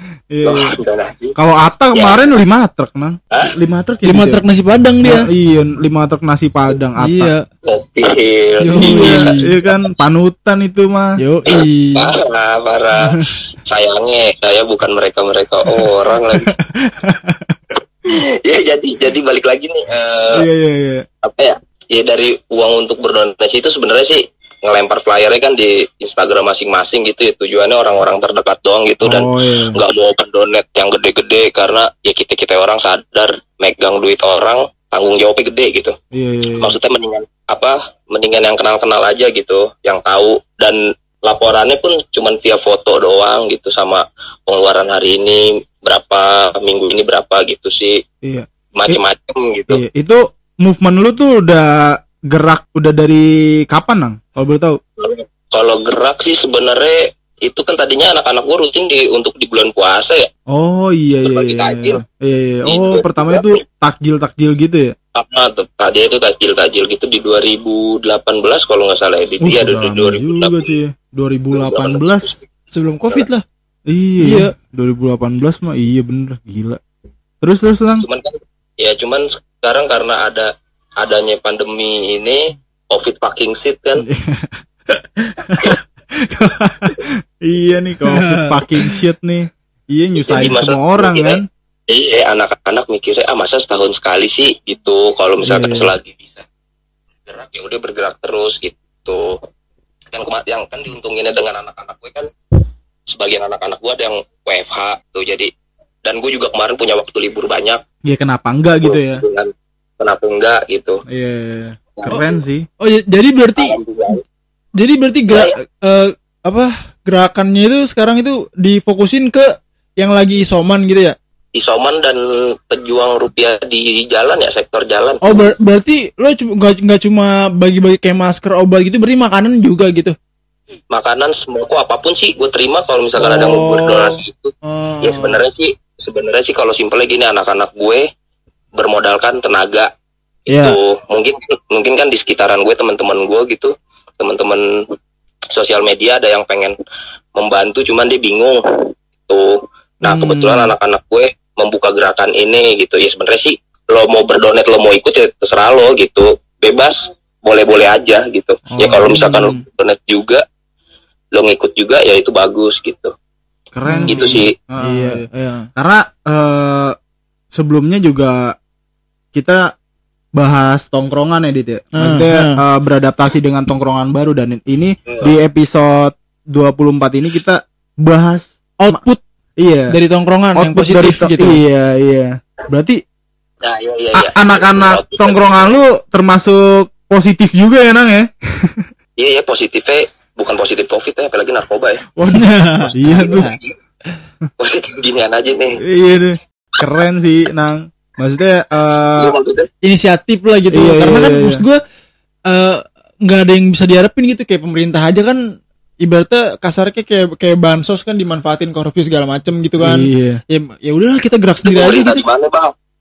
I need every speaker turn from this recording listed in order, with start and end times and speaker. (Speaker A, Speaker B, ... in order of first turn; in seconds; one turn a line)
Speaker A: 0.3-0.8
Speaker B: 0.4-1.4
Speaker A: 1.4-4.4
Speaker B: 1.9-2.2
Speaker C: 4.0-5.3
Speaker A: 5.0-7.3
Speaker C: 7.0-7.4
Speaker B: 7.7-9.4
Speaker C: 8.6-9.5
Speaker A: 8.8-11.1
Speaker C: 11.2-12.1
Speaker B: 11.5-16.5
Speaker A: 16.4-17.6
Speaker B: 18.1-20.4
Speaker A: 20.4-21.0
Speaker B: 21.2-36.0
Speaker A: 29.0-29.8
Speaker A: 36.1-36.8
Speaker B: 36.6-48.0
Speaker A: 48.2-49.0
Speaker B: 48.8-49.8
Speaker A: 49.7-54.8
Speaker B: 55.0-60.3
Speaker A: 60.5-65.0
Speaker B: 61.2-62.0
Speaker B: 62.7-63.6
Speaker B: 65.2-70.8
Speaker A: 69.4-72.4
Speaker B: 71.5-72.4
Speaker C: 72.7-73.4
Speaker A: 73.9-76.8
Speaker C: 74.2-74.5
Speaker A: 77.4-78.0
Speaker B: 78.0-84.1
Speaker A: 84.0-91.5
Speaker C: 88.1-89.0
Speaker B: 90.2-96.5
Speaker A: 95.4-95.9
Speaker B: 97.3-99.4
Speaker B: 100.1-102.3
Speaker B: 103.1-105.5
Speaker B: 106.0-107.8
Speaker A: 108.0-109.2
Speaker B: 108.8-111.0
Speaker A: 111.1-112.7
Speaker B: 112.0-112.4
Speaker C: 112.8-113.8
Speaker B: 113.6-114.2
Speaker C: 114.8-121.2
Speaker B: 115.3-115.6
Speaker B: 121.5-125.5
Speaker C: 125.2-130.2
Speaker B: 130.9-138.1
Speaker C: 133.2-135.4
Speaker B: 138.8-139.9
Speaker B: 140.5-144.8
Speaker B: 145.5-146.8
Speaker B: 147.4-148.6
Speaker B: 149.3-160.4
Speaker C: 150.0-150.7
Speaker A: 158.7-159.3
Speaker C: 158.9-159.6
Speaker B: 161.3-163.1
Speaker A: 163.7-167.0
Speaker C: 163.9-165.7
Speaker B: 164.1-164.5
Speaker A: 167.5-168.6
Speaker A: 169.3-169.7
Speaker A: 170.3-179.0
Speaker C: 172.0-172.6
Speaker B: 175.1-175.4
Speaker C: 178.8-179.2
Speaker A: 179.6-179.9
Speaker C: 179.9-181.6
Speaker A: 180.6-183.0
Speaker B: 183.6-185.8
Speaker A: 184.1-188.9
Speaker B: 189.2-192.1
Speaker C: 192.2-193.5
Speaker A: 192.2-193.6
Speaker B: 193.1-193.7
Speaker B: 194.6-195.8
Speaker A: 195.8-199.4
Speaker B: 198.9-199.7
Speaker C: 199.8-201.8
Speaker A: 200.7-201.6
Speaker C: 202.5-205.4
Speaker C: 206.0-212.2
Speaker A: 209.8-210.4
Speaker B: 211.6-212.7